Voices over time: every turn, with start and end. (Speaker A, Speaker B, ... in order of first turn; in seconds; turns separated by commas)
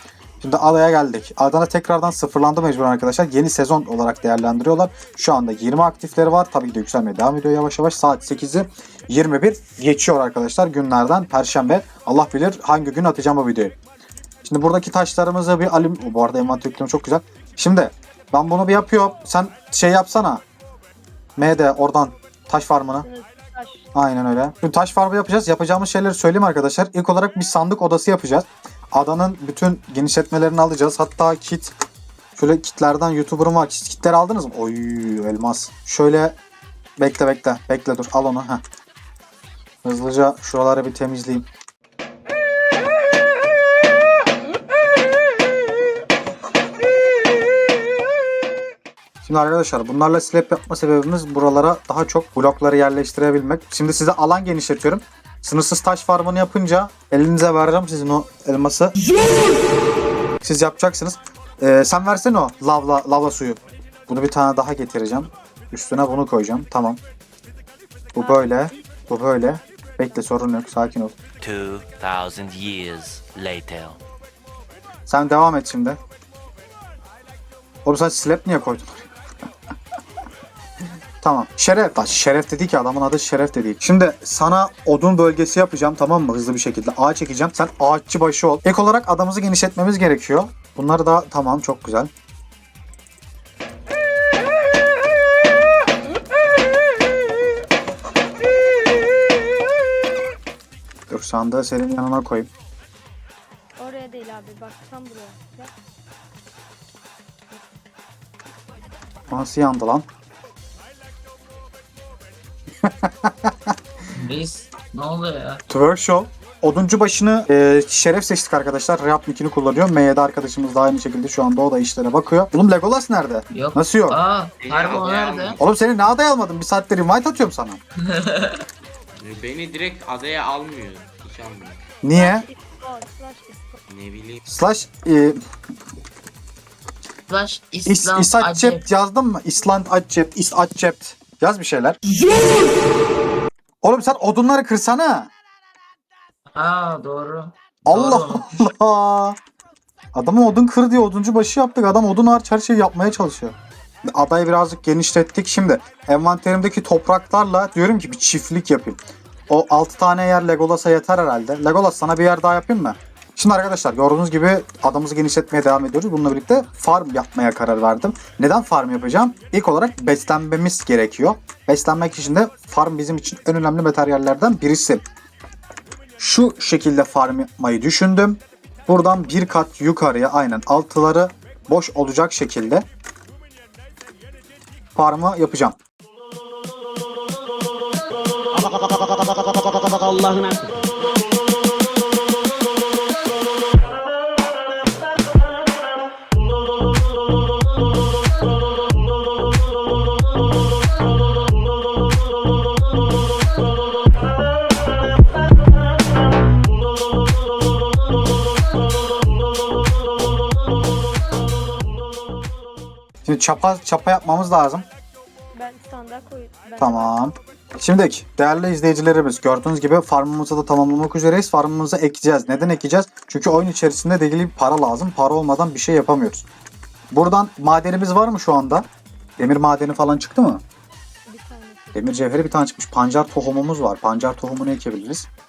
Speaker A: 0.4-13.8, Speaker A: 14.4-20.4, Speaker A: 21.4-23.1, Speaker B: 23.0-23.9, Speaker A: 23.9-31.7, Speaker A: 32.4-36.4, Speaker A: 37.0-38.6, Speaker A: 39.8-41.5, Speaker A: 49.2-59.0, Speaker A: 60.4-67.0, Speaker A: 68.2-71.2, Speaker B: 68.2-68.9, Speaker C: 71.4-74.0, Speaker A: 75.1-76.0, Speaker A: 77.8-79.1, Speaker A: 81.2-92.1, Speaker A: 101.1-102.5, Speaker B: 103.8-105.7, Speaker A: 109.3-110.1, Speaker A: 112.8-113.7, Speaker D: 114.1-115.6, Speaker A: 115.7-124.2, Speaker D: 123.5-125.6, Speaker E: 124.6-125.6, Speaker A: 125.6-127.8, Speaker D: 128.1-128.6, Speaker E: 129.2-131.8, Speaker A: 132.0-132.5, Speaker B: 132.1-133.8, Speaker E: 133.9-134.4, Speaker A: 134.4-135.4, Speaker D: 137.3-138.8, Speaker A: 137.9-142.0, Speaker A: 143.8-145.3, Speaker D: 146.5-148.6, Speaker A: 147.9-149.4, Speaker A: 150.2-153.6, Speaker A: 154.1-175.0, Speaker A: 176.2-182.9, Speaker A: 184.9-185.8, Speaker F: 188.6-190.7, Speaker A: 213.2-214.9, Speaker B: 215.5-217.2, Speaker A: 216.8-226.5, Speaker A: 227.1-228.9, Speaker A: 229.4-230.6, Speaker B: 231.3-232.2, Speaker A: 231.9-235.3